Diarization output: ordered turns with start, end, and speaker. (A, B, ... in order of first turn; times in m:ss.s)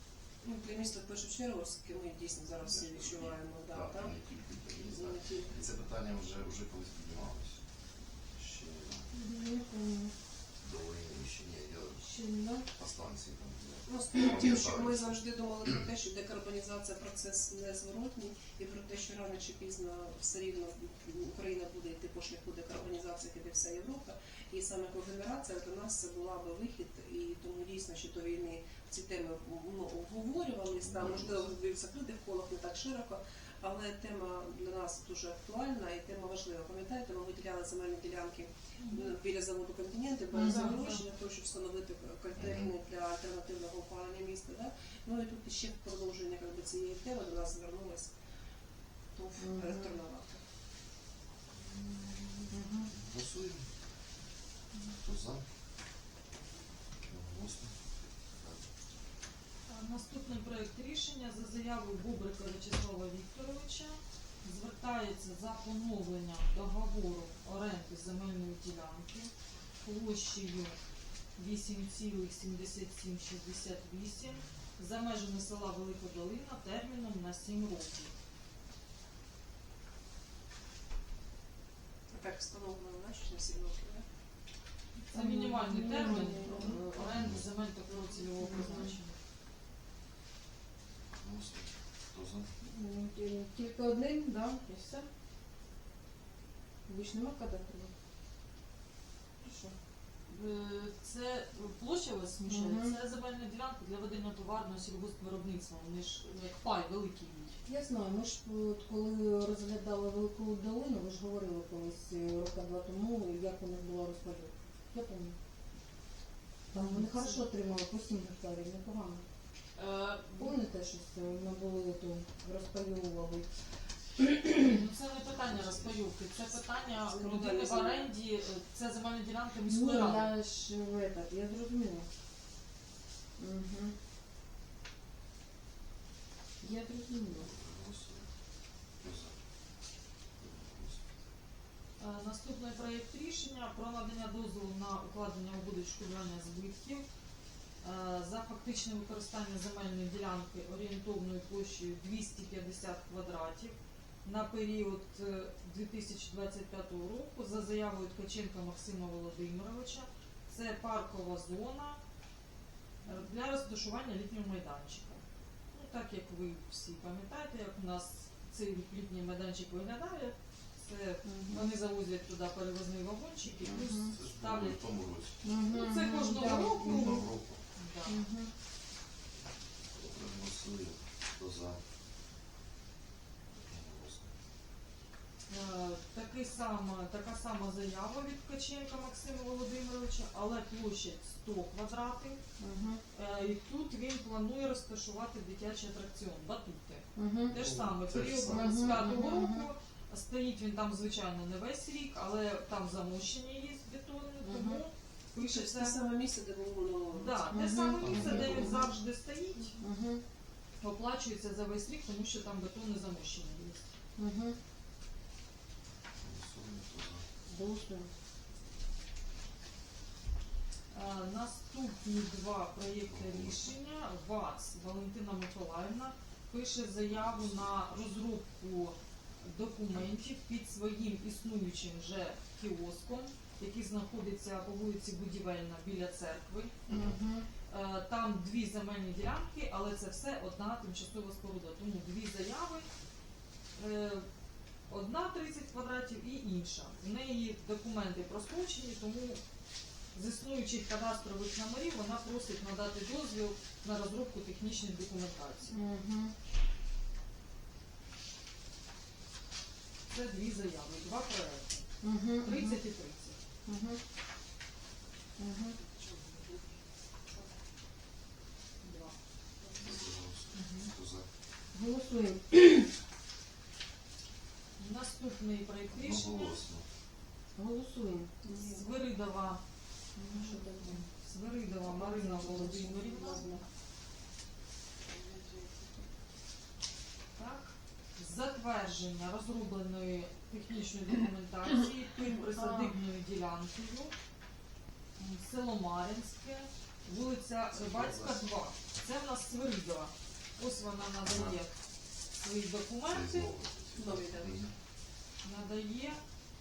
0:00.4-0:04.2 A
0:02.6-0:07.6 B
0:04.8-0:05.5 A
0:08.2-0:09.1 B
0:09.1-0:10.1 C
0:10.6-0:12.1 B
0:12.0-0:12.7 C
0:12.7-0:15.7 B
0:13.8-0:48.1 A
0:30.8-0:31.5 B
0:38.8-0:39.1 D
0:40.3-0:40.8 C
0:40.4-0:41.0 D
0:42.4-0:42.7 B
0:49.1-0:50.4 A
0:49.4-0:49.9 C
0:51.8-0:53.7 B
0:52.5-0:52.9 C
0:54.9-0:55.4 B
0:57.0-0:58.7 B
0:59.7-1:10.8 D
1:11.4-1:18.1 D
1:22.1-1:24.0 A
1:25.0-1:27.0 C
1:25.1-1:29.2 D
1:27.1-1:27.4 B
1:28.4-1:28.9 C
1:31.1-1:32.5 B
1:32.6-1:35.0 C
1:36.9-1:37.9 C
1:39.4-1:39.7 C
1:40.3-1:47.6 D
1:42.4-1:43.0 C
1:47.6-1:55.4 C
1:56.7-1:59.2 C
1:56.7-1:57.4 D
1:59.8-2:00.4 D
2:00.3-2:03.5 C
2:04.2-2:04.8 C
2:04.5-2:10.3 D
2:05.5-2:06.0 B
2:06.9-2:08.1 A
2:09.7-2:12.1 C
2:13.4-2:13.9 C
2:16.6-2:17.5 C
2:17.4-2:18.3 B
2:19.0-2:19.4 B
2:20.4-2:21.1 B
2:22.0-2:27.0 D
2:27.8-2:42.0 D
2:43.0-2:54.8 D
2:51.2-2:51.7 C
2:53.8-2:54.1 C
2:53.8-2:55.4 B
2:55.4-2:57.2 C
2:55.6-2:58.2 D
2:56.6-2:57.6 B
2:58.0-2:58.5 C
2:59.9-3:01.8 B
3:03.5-3:04.3 B
3:05.5-3:12.4 D
3:12.6-3:13.0 C
3:13.1-3:26.0 D
3:17.1-3:17.6 C
3:17.5-3:19.2 B
3:18.4-3:19.7 C
3:24.4-3:24.8 C
3:25.4-3:27.4 A
3:27.1-3:29.8 D
3:27.5-3:28.6 C
3:28.0-3:28.9 B
3:29.8-3:30.2 C
3:30.8-3:33.8 D
3:34.2-3:34.6 C
3:36.2-3:37.2 B
3:37.5-3:38.1 C
3:40.9-3:56.7 D
3:43.1-3:43.7 B
3:47.2-3:47.6 B
3:56.9-3:57.5 C
3:57.7-4:02.9 D
4:03.8-4:04.2 D
4:04.9-4:09.4 D
4:10.1-4:15.7 D
4:15.7-4:16.3 C
4:20.1-4:21.8 D
4:22.0-4:22.8 C
4:22.4-4:23.4 D
4:23.6-4:24.0 C
4:25.4-4:25.8 C
4:25.8-4:26.6 A
4:28.8-4:29.1 D
4:29.6-4:30.0 A
4:29.8-4:31.2 B
4:30.5-4:30.9 D
4:31.7-4:32.9 C
4:34.8-4:36.6 D
4:35.9-4:36.8 B
4:37.6-4:38.5 C
4:38.4-4:38.8 A
4:38.5-4:39.6 D
4:40.2-4:41.0 C
4:40.3-4:43.4 D
4:41.8-4:43.6 C
4:45.0-4:45.9 A
4:47.4-4:54.1 D
4:52.5-4:53.0 C
4:55.2-5:01.7 D
4:57.7-4:58.4 B
5:02.4-5:03.5 D
5:03.1-5:04.7 B
5:04.0-5:04.6 A
5:05.4-5:06.2 D